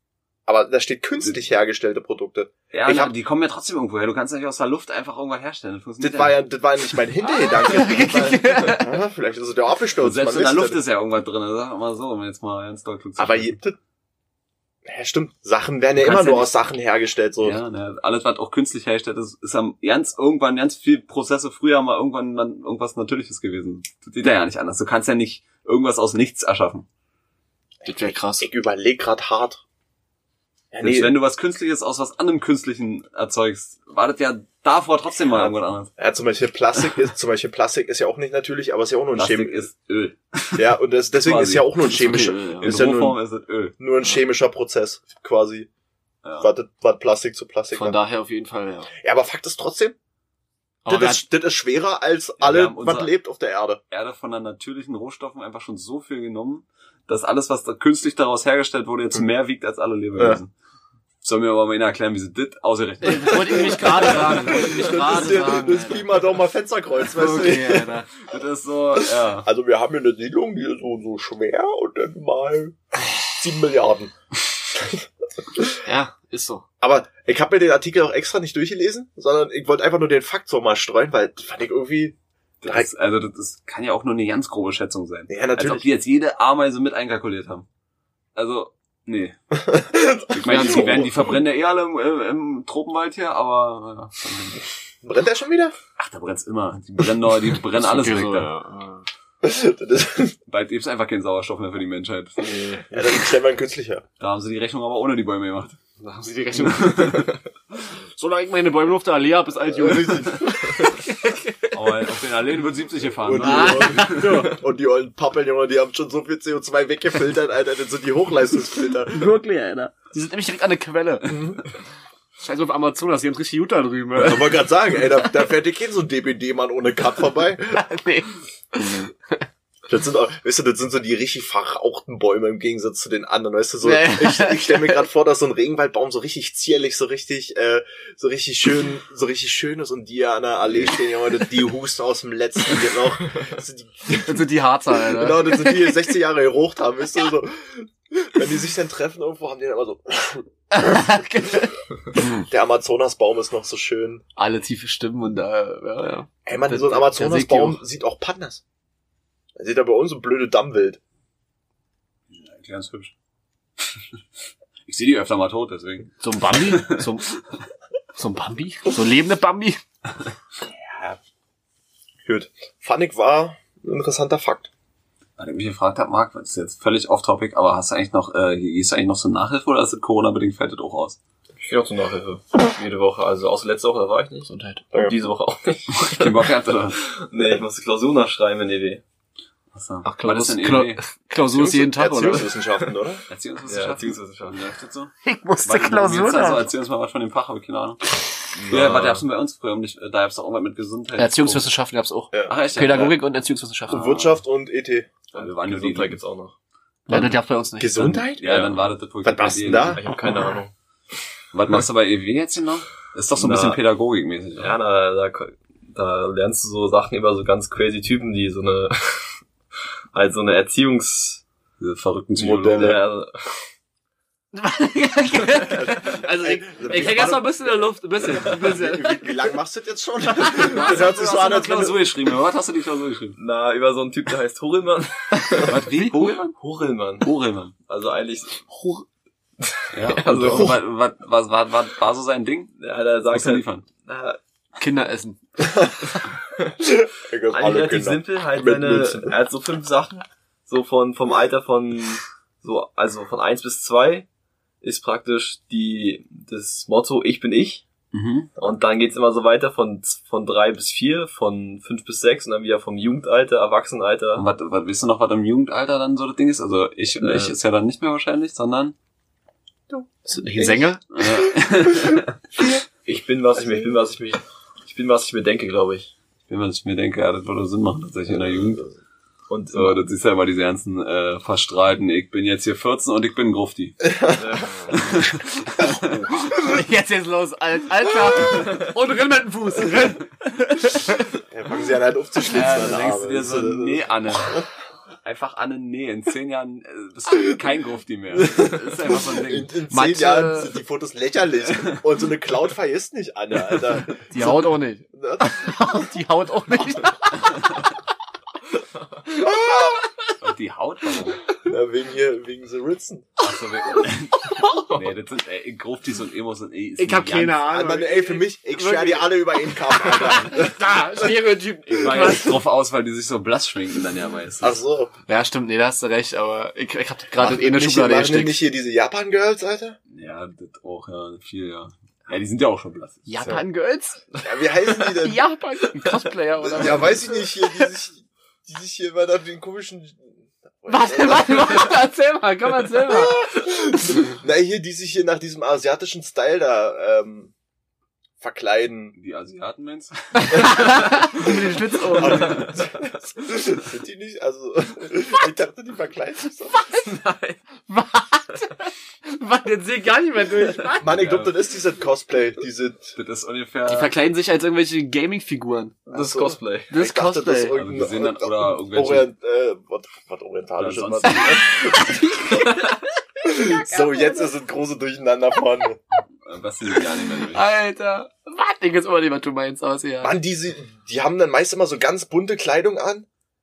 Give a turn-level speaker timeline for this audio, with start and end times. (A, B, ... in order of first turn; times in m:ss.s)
0:00.5-0:03.1 A
0:02.7-0:06.4 B
0:06.0-0:10.8 A
0:07.3-0:08.9 C
0:10.0-0:13.6 B
0:13.2-0:13.8 A
0:14.8-0:17.6 A
0:16.0-0:16.6 B
0:17.4-0:26.8 B
0:27.8-0:28.5 C
0:27.8-0:29.6 A
0:30.7-0:31.2 A
0:30.8-0:35.9 B
0:35.3-0:39.7 A
0:39.2-0:41.7 B
0:40.5-0:43.2 A
0:41.8-0:42.8 C
0:42.6-0:43.7 B
0:43.8-0:45.7 A
0:46.4-0:48.0 A
0:47.7-0:48.9 C
0:49.0-0:49.9 A
0:50.8-0:51.2 C
0:50.9-0:53.8 A
0:52.4-0:53.1 B
0:53.9-1:00.5 B
1:01.2-1:04.6 B
1:03.0-1:06.2 C
1:03.3-1:07.9 A
1:07.1-1:08.1 C
1:08.2-1:09.5 B
1:09.4-1:14.1 A
1:14.7-1:15.0 A
1:15.8-1:16.6 C
1:16.8-1:22.9 A
1:22.6-1:27.6 B
1:25.3-1:25.9 A
1:28.3-1:29.6 B
1:29.6-1:31.3 A
1:30.3-1:34.6 B
1:30.4-1:31.1 C
1:35.0-1:35.7 A
1:36.0-1:38.5 B
1:37.8-1:39.0 C
1:39.4-1:40.4 A
1:40.5-1:42.7 B
1:42.9-1:44.0 A
1:44.2-1:45.8 B
1:46.0-1:51.8 C
1:46.6-1:47.3 B
1:49.7-1:50.8 A
1:51.7-1:54.5 B
1:53.2-1:59.3 A
1:53.4-1:54.6 C
1:59.0-2:01.4 C
2:01.3-2:01.6 A
2:02.4-2:04.7 C
2:04.2-2:07.8 A
2:07.7-2:09.4 C
2:09.9-2:24.4 A
2:13.8-2:15.0 C
2:24.1-2:26.0 C
2:25.1-2:30.9 A
2:30.7-2:32.4 C
2:32.3-2:34.2 A
2:34.4-2:37.8 C
2:36.4-2:38.6 A
2:39.6-2:41.0 A
2:42.3-2:43.1 B
2:43.8-2:44.2 B
2:44.8-2:47.2 B
2:46.2-2:47.3 C
2:48.2-2:49.8 C
2:52.2-2:54.7 A
2:55.4-3:01.2 B
3:01.6-3:09.0 D
3:04.5-3:04.8 C
3:05.9-3:07.0 B
3:09.7-3:11.0 B
3:10.0-3:12.5 C
3:11.5-3:13.2 A
3:13.3-3:18.0 B
3:13.7-3:14.6 D
3:15.2-3:16.7 C
3:18.6-3:19.2 D
3:18.7-3:21.7 B
3:21.2-3:24.0 C
3:22.5-3:23.2 B
3:23.9-3:24.4 B
3:23.9-3:25.1 A
3:25.3-3:26.5 D
3:25.3-3:26.2 B
3:27.1-3:28.3 C
3:27.1-3:30.0 A
3:28.4-3:30.0 B
3:29.9-3:30.7 D
3:31.5-3:34.8 B
3:33.4-3:33.8 D
3:34.6-3:39.4 D
3:40.1-3:41.4 D
3:41.8-3:43.0 B
3:42.4-3:43.5 D
3:42.5-3:43.0 A
3:44.5-3:49.5 C
3:45.7-3:52.0 A
3:50.4-3:50.9 C
3:50.6-3:53.4 B
3:53.4-3:55.8 D
3:55.6-3:56.4 C
3:55.6-3:56.5 B
3:56.5-3:57.3 D
3:57.2-3:57.7 B
3:57.9-3:58.6 D
3:58.7-3:59.0 C
3:59.6-4:00.8 D
3:59.9-4:02.7 B
4:02.8-4:04.4 D
4:03.3-4:03.8 B
4:04.8-4:05.8 C
4:06.8-4:09.3 A
4:07.5-4:14.2 D
4:14.8-4:17.9 D
4:18.1-4:18.5 B
4:18.6-4:24.4 D
4:24.3-4:28.9 B
4:27.2-4:27.5 D
4:29.9-4:30.9 A
4:30.3-4:31.0 C
4:31.1-4:32.4 B
4:33.0-4:36.1 D
4:36.5-4:38.8 B
4:39.5-4:40.0 D
4:39.7-4:44.0 B
4:44.0-4:44.4 A
4:44.3-4:45.2 D
4:44.9-4:46.4 B
4:46.4-4:51.3 C
4:51.5-4:54.0 A
4:52.5-4:54.6 B
4:55.2-4:59.7 B
4:58.4-5:06.1 A
4:59.9-5:00.7 C
5:04.2-5:07.5 C
5:09.4-5:10.0 A
5:10.4-5:11.4 B
5:11.6-5:13.3 A
5:13.4-5:17.6 B
5:17.0-5:22.6 C
5:17.7-5:21.3 A
5:21.9-5:24.8 B
5:24.6-5:25.1 A
5:25.3-5:28.6 C
5:27.4-5:30.0 A
5:30.1-5:33.6 B
5:33.2-5:34.4 C
5:34.4-5:35.4 A
5:35.0-5:37.9 C
5:36.6-5:41.9 A
5:40.9-5:43.5 C
5:43.1-5:47.5 A
5:48.4-5:49.2 A
5:49.1-5:51.0 B
5:50.4-5:52.7 C
5:52.1-5:56.8 A
5:56.8-5:57.2 C
5:57.1-5:57.6 D
5:57.9-6:01.2 C
6:00.9-6:03.2 A
6:01.1-6:01.5 B
6:03.2-6:04.1 B
6:03.9-6:06.1 C
6:06.1-6:12.6 A
6:06.1-6:06.9 D
6:06.9-6:07.7 C
6:07.7-6:09.3 B
6:10.8-6:11.6 B
6:11.3-6:13.0 C
6:13.4-6:16.0 A
6:13.5-6:14.5 C
6:16.4-6:17.7 B
6:17.4-6:20.4 C
6:20.2-6:23.3 A